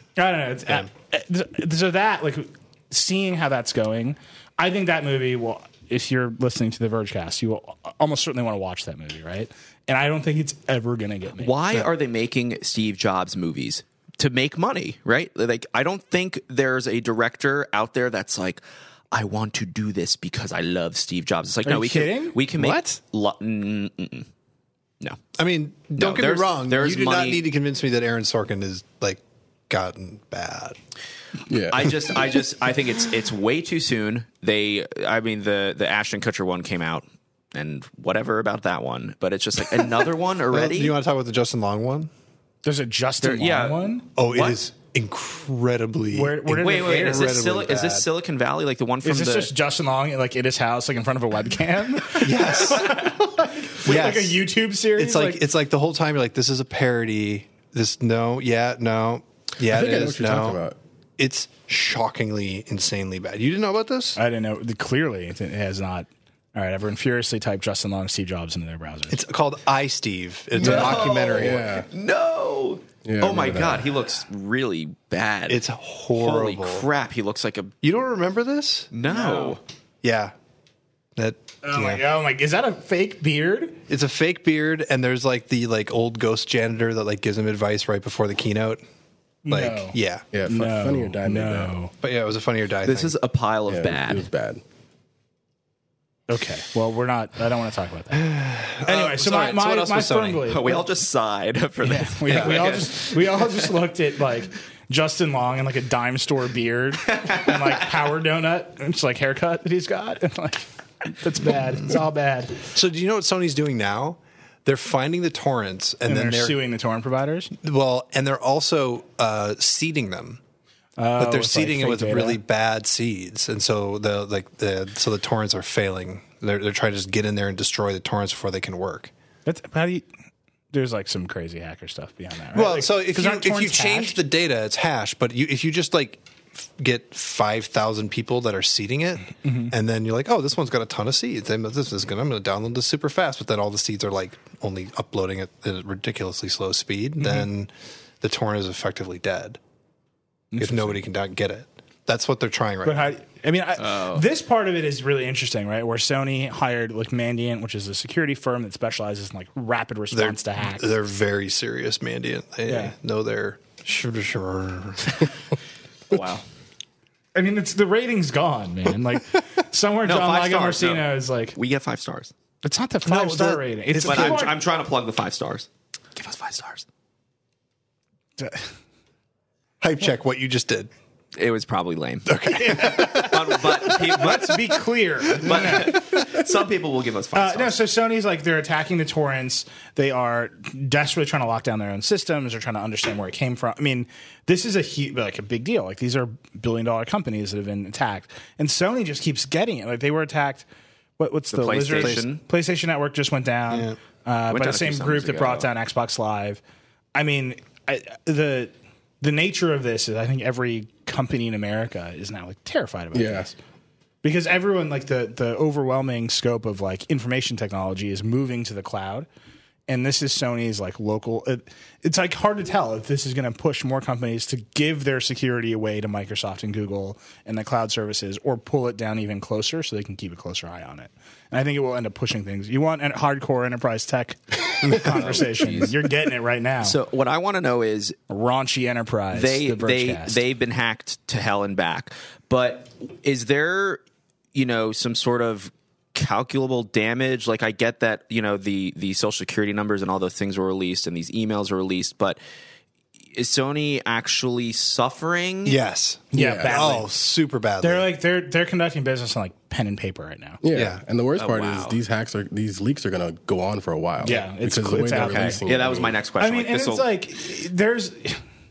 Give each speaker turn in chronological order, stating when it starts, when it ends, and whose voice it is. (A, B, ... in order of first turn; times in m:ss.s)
0:00.2-0:11.6 A
0:11.4-0:24.3 B
0:21.6-0:22.4 A
0:25.4-0:30.8 C
0:26.0-0:27.4 B
0:31.5-0:32.0 D
0:31.7-0:41.0 B
0:40.5-0:42.1 C
0:42.6-0:44.1 A
0:43.2-0:44.6 B
0:44.2-0:48.1 C
0:46.1-0:47.3 A
0:46.5-0:49.5 B
0:49.0-0:55.4 A
0:52.2-0:53.1 C
0:53.8-0:54.4 C
0:55.0-1:00.6 C
0:59.7-1:00.8 D
1:01.2-1:04.2 C
1:04.2-1:09.2 A
1:09.1-1:11.7 C
1:10.6-1:17.7 B
1:10.6-1:11.9 D
1:13.0-1:13.9 D
1:15.5-1:16.9 C
1:17.8-1:18.9 C
1:18.9-1:19.6 B
1:19.1-1:19.6 A
1:20.0-1:20.3 C
1:21.2-1:22.0 C
1:21.6-1:23.8 A
1:23.9-1:28.8 C
1:29.4-1:31.9 A
1:29.5-1:30.2 C
1:30.3-1:31.8 D
1:32.0-1:33.1 C
1:32.8-1:34.3 B
1:33.7-1:34.6 D
1:36.3-1:38.3 A
1:38.1-1:40.6 C
1:38.8-1:40.9 A
1:40.5-1:43.6 B
1:41.8-1:52.7 A
1:42.3-1:42.7 C
1:47.2-1:47.7 B
1:52.7-1:56.6 C
1:56.1-1:57.5 A
1:57.6-2:00.4 C
2:01.0-2:02.4 A
2:01.2-2:09.1 C
2:09.5-2:10.1 A
2:10.7-2:14.2 A
2:12.5-2:29.6 C
2:19.4-2:19.7 A
2:27.2-2:27.5 A
2:30.5-2:31.0 A
2:30.6-2:33.1 C
2:32.8-2:40.9 A
2:33.8-2:34.2 B
2:40.1-2:45.2 C
2:42.7-2:42.9 A
2:46.1-2:46.4 B
2:47.4-2:51.6 A
2:50.0-2:52.3 B
2:52.6-2:54.6 A
2:53.0-2:54.5 C
2:54.0-2:56.8 B
2:58.4-2:58.7 A
2:59.8-3:00.9 C
3:01.4-3:04.6 B
3:02.3-3:04.4 C
3:02.5-3:06.1 A
3:05.3-3:07.8 B
3:05.4-3:05.9 C
3:07.4-3:20.6 A
3:21.2-3:26.6 A
3:21.5-3:22.4 B
3:21.9-3:22.2 C
3:23.7-3:24.0 C
3:24.5-3:25.7 B
3:27.2-3:33.6 A
3:33.1-3:33.5 D
3:34.2-3:39.3 A
3:39.9-3:57.0 A
3:54.9-3:55.9 B
3:56.8-3:58.2 B
3:58.3-4:00.4 A
3:59.3-4:04.0 B
4:04.5-4:12.4 B
4:13.3-4:15.8 B
4:15.6-4:18.1 C
4:16.3-4:17.1 A
4:16.4-4:16.8 D
4:17.8-4:20.6 A
4:20.6-4:26.2 D
4:21.4-4:22.0 B
4:24.2-4:25.6 A
4:25.0-4:27.1 B
4:26.4-4:28.4 A